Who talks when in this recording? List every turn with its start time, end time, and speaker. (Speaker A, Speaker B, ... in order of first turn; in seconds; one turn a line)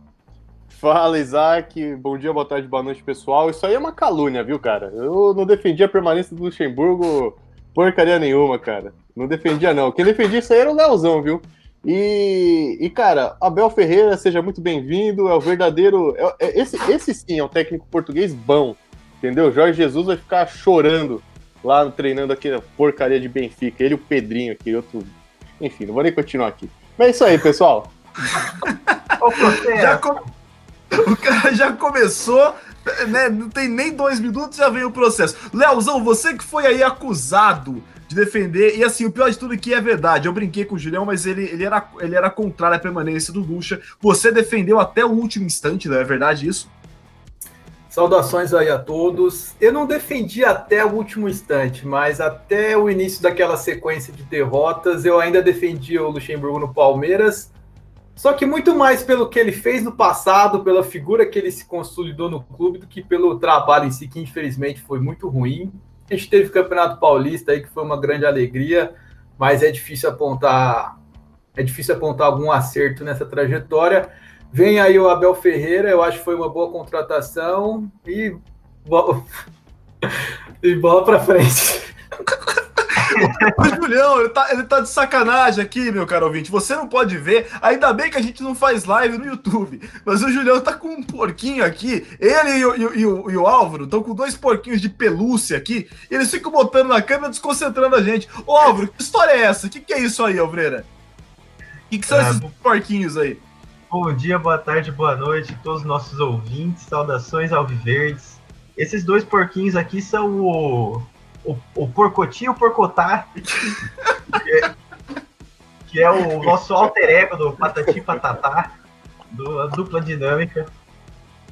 Speaker A: 0.7-27.9
Speaker B: 28.9-30.2
Speaker C: 29.2-30.1
Speaker B: 30.9-46.7
Speaker D: 47.9-57.5
Speaker D: 58.1-71.0
Speaker D: 71.5-79.2
Speaker D: 80.6-82.4
Speaker C: 83.1-83.5
Speaker B: 83.4-100.9
Speaker B: 101.9-103.4
Speaker C: 102.1-102.5
Speaker C: 103.9-113.3
Speaker C: 114.3-114.7
Speaker C: 115.9-118.8
Speaker C: 119.3-120.7